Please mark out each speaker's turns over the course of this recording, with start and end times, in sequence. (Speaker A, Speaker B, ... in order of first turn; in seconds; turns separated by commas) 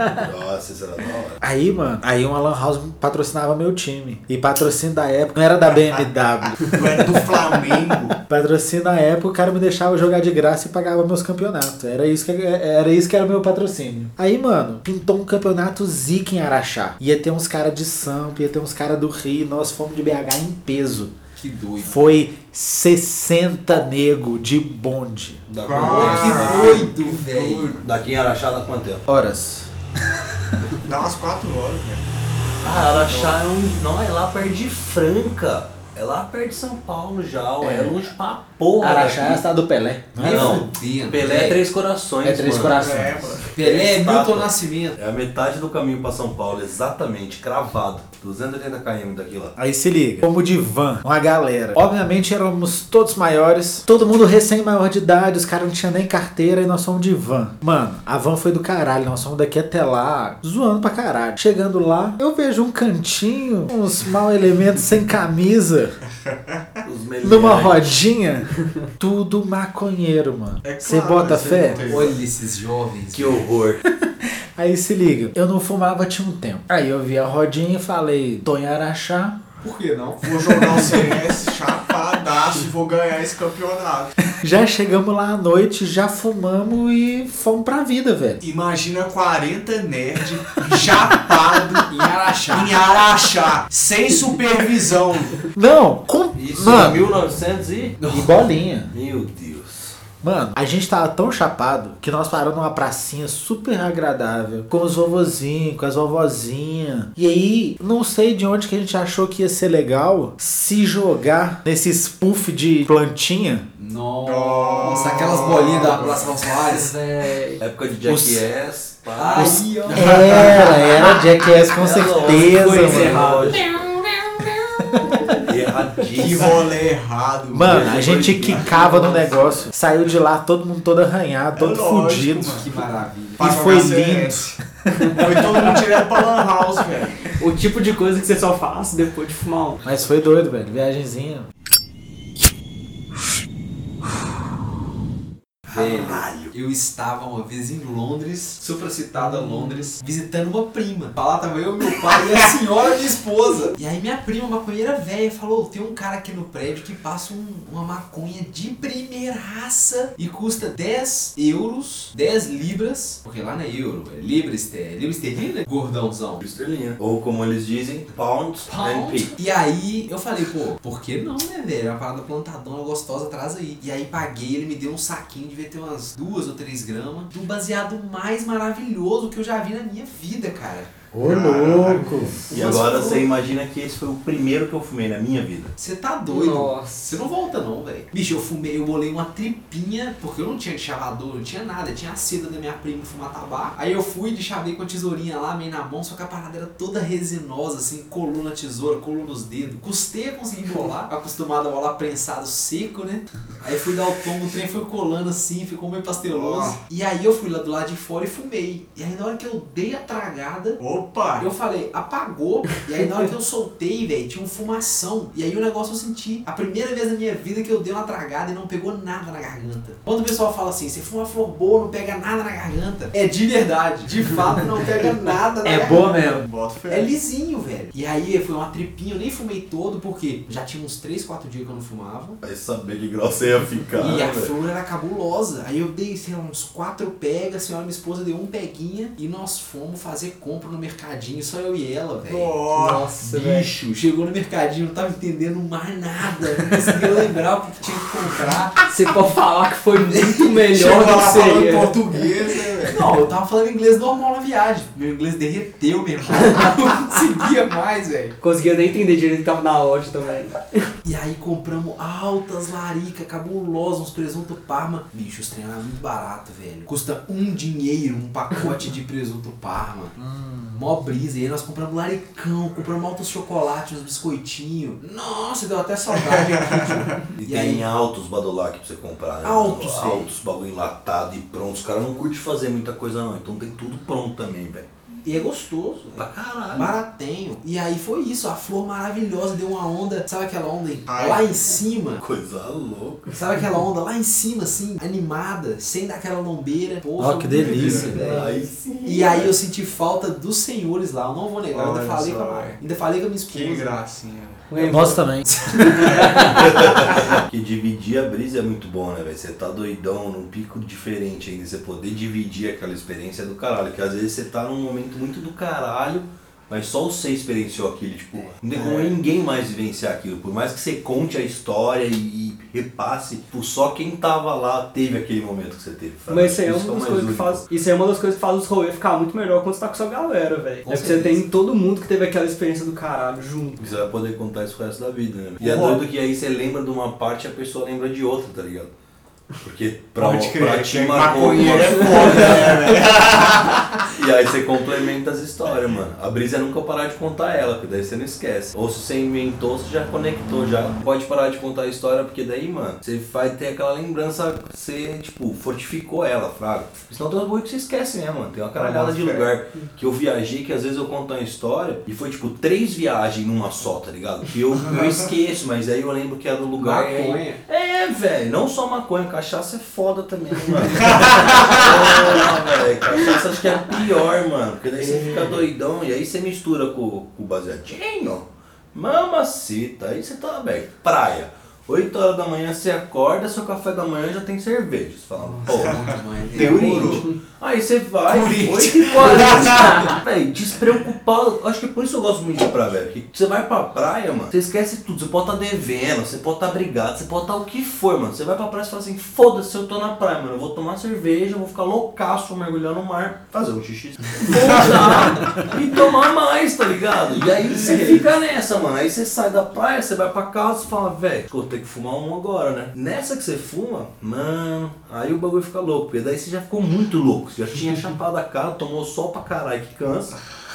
Speaker A: 0.2-1.4, Speaker B: 1.4-7.2, Speaker C: 5.7-6.0, Speaker C: 6.6-8.2, Speaker B: 8.2-21.1, Speaker D: 21.4-22.2, Speaker B: 21.8-25.4, Speaker A: 25.5-26.9, Speaker C: 25.6-27.8, Speaker D: 25.7-27.8, Speaker A: 27.8-29.1, Speaker B: 29.1-29.7, Speaker C: 30.8-32.0, Speaker A: 32.6-39.4, Speaker C: 32.6-33.4, Speaker B: 37.6-38.0, Speaker B: 38.8-40.6, Speaker D: 40.2-41.6, Speaker A: 40.2-42.8, Speaker B: 42.2-43.4, Speaker C: 42.7-43.5, Speaker D: 43.5-45.0, Speaker A: 43.6-49.5, Speaker B: 49.6-66.0, Speaker A: 66.8-68.0, Speaker B: 67.2-72.1, Speaker C: 70.6-72.2, Speaker D: 71.9-73.4, Speaker A: 73.1-73.8, Speaker B: 74.0-79.4, Speaker D: 79.6-80.3, Speaker C: 80.2-84.2, Speaker B: 84.3-88.4, Speaker C: 88.4-91.9, Speaker D: 91.9-92.8, Speaker C: 92.5-95.4, Speaker B: 95.5-97.0, Speaker A: 96.3-98.0, Speaker D: 98.0-98.4, Speaker B: 98.1-98.9, Speaker A: 98.9-100.0, Speaker B: 100.2-113.7, Speaker D: 113.8-117.0, Speaker C: 114.2-116.4, Speaker E: 116.7-117.6, Speaker A: 117.6-119.7, Speaker D: 119.2-120.7, Speaker B: 119.4-123.5, Speaker C: 119.9-120.9, Speaker A: 121.6-123.9, Speaker E: 122.3-123.7, Speaker A: 125.4-126.7, Speaker C: 126.2-127.9, Speaker B: 127.5-132.7, Speaker A: 127.7-129.7, Speaker C: 131.6-132.7, Speaker D: 132.5-133.4, Speaker C: 133.4-134.6, Speaker B: 133.4-134.6, Speaker C: 135.2-137.3, Speaker E: 137.4-139.8, Speaker B: 139.8-141.5, Speaker D: 145.7-166.4, Speaker A: 145.9-146.5, Speaker A: 166.4-169.3, Speaker D: 168.7-180.9, Speaker B: 181.1-182.4, Speaker C: 181.3-182.1, Speaker D: 182.5-183.3, Speaker A: 182.5-185.7, Speaker D: 185.8-210.8, Speaker E: 186.3-187.1, Speaker C: 206.3-206.8, Speaker C: 210.8-211.5, Speaker D: 211.4-226.2, Speaker B: 225.6-226.5, Speaker C: 226.2-227.1, Speaker D: 226.9-232.4, Speaker A: 232.4-234.5, Speaker D: 234.0-242.6, Speaker C: 242.2-243.1, Speaker E: 242.7-243.7, Speaker D: 243.2-248.8, Speaker E: 248.9-252.0, Speaker D: 250.1-250.5, Speaker C: 250.7-253.1, Speaker D: 252.8-258.4, Speaker E: 258.4-260.8, Speaker D: 261.1-270.2, Speaker B: 270.2-270.8, Speaker D: 270.7-277.9, Speaker C: 276.2-277.3, Speaker A: 277.4-284.9, Speaker D: 279.4-280.3, Speaker D: 285.2-292.2, Speaker A: 286.2-286.9, Speaker C: 291.1-291.4, Speaker A: 292.2-293.3, Speaker D: 293.3-298.5, Speaker B: 297.2-298.2, Speaker C: 297.5-298.1, Speaker E: 298.1-298.8, Speaker A: 298.2-299.6, Speaker D: 299.0-303.9, Speaker C: 301.7-302.8, Speaker C: 303.5-305.1, Speaker E: 304.7-306.8, Speaker B: 304.8-305.5, Speaker D: 305.6-306.8, Speaker A: 306.4-327.6, Speaker E: 318.7-319.1, Speaker E: 326.3-334.0, Speaker D: 330.8-331.4, Speaker A: 333.8-338.9, Speaker C: 335.6-336.0, Speaker A: 339.6-343.2, Speaker C: 340.2-344.0, Speaker E: 342.1-342.8, Speaker A: 344.1-420.4, Speaker C: 358.8-359.5, Speaker D: 366.8-367.6, Speaker C: 371.1-372.4, Speaker D: 375.0-375.6, Speaker D: 385.5-387.3, Speaker C: 386.0-387.3, Speaker C: 388.3-390.2, Speaker E: 389.1-390.2, Speaker C: 404.5-405.7, Speaker D: 407.8-408.2